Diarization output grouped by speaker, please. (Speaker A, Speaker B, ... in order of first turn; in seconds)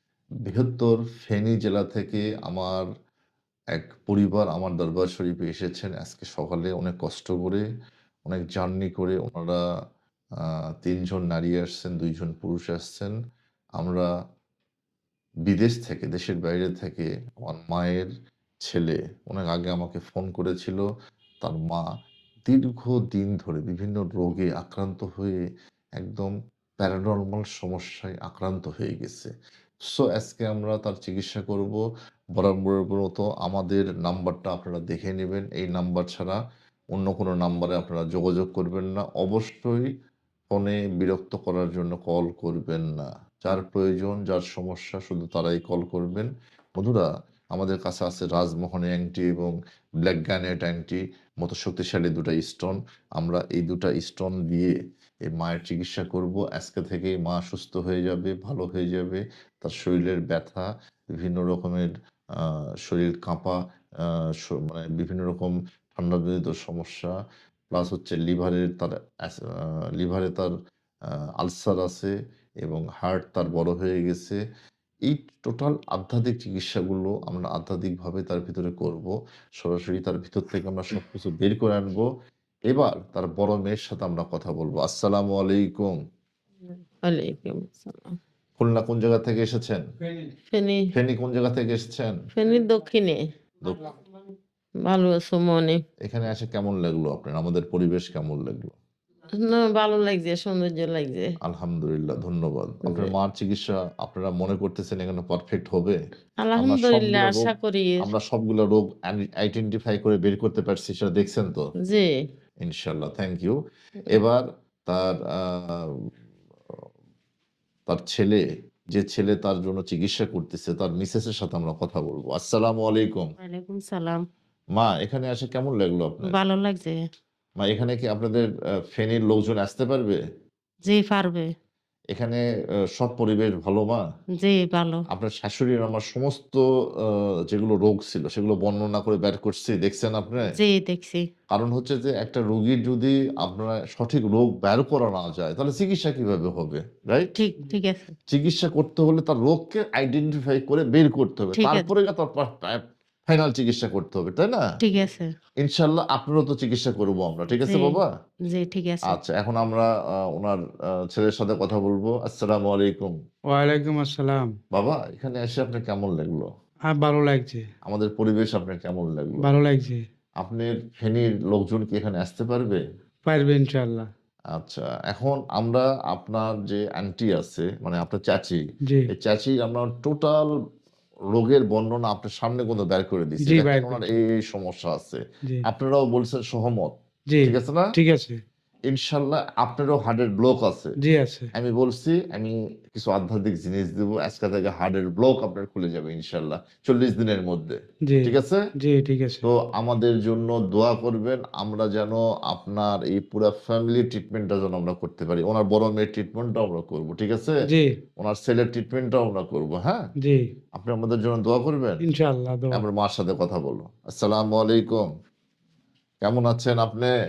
Speaker A: 0.5-2.9, 3.7-7.6, 8.3-9.6, 10.4-13.1, 13.8-14.1, 15.5-18.1, 18.6-20.8, 21.4-21.8, 22.5-25.4, 26.0-29.3, 29.9-31.8, 32.4-36.4, 36.9-39.9, 40.5-54.7, 55.3-67.1, 67.7-70.5, 71.4-72.1, 72.6-74.4, 75.0-82.1, 82.7-85.9, 88.6-89.8, 90.9-92.2, 93.6-93.9, 96.0-98.7, 101.4-106.0, 106.5-107.5, 108.0-111.6, 112.6-113.5, 114.1-115.9, 117.9-123.3, 124.8-126.3, 127.6-130.2, 132.1-132.4, 132.9-134.0, 135.1-140.5, 141.5-147.3, 148.3-154.6, 155.6-158.1, 159.1-163.1, 164.7-166.5, 167.8-169.4, 170.4-172.8, 174.5-178.6, 179.1-180.5, 181.3-187.9, 188.9-190.9, 191.5-198.6, 199.4-207.6, 208.2-210.0, 210.8-212.0, 212.7-215.1, 216.2-217.1
Speaker B: 87.0-88.2, 90.5-90.9, 92.3-93.2, 94.8-95.8, 99.4-101.3, 102.8-103.1, 106.4-108.1, 111.8-112.1, 123.4-124.2, 126.2-127.0, 130.8-131.5, 134.3-135.0, 140.6-141.2, 147.3-148.1, 151.5-151.9, 154.8-155.3, 157.7-159.2
Speaker C: 163.5-164.5, 166.9-167.6, 169.4-170.0, 173.3-174.1, 183.4-184.1, 187.3-188.4, 191.0-191.5, 198.1-199.5, 207.7-207.9, 212.0-212.8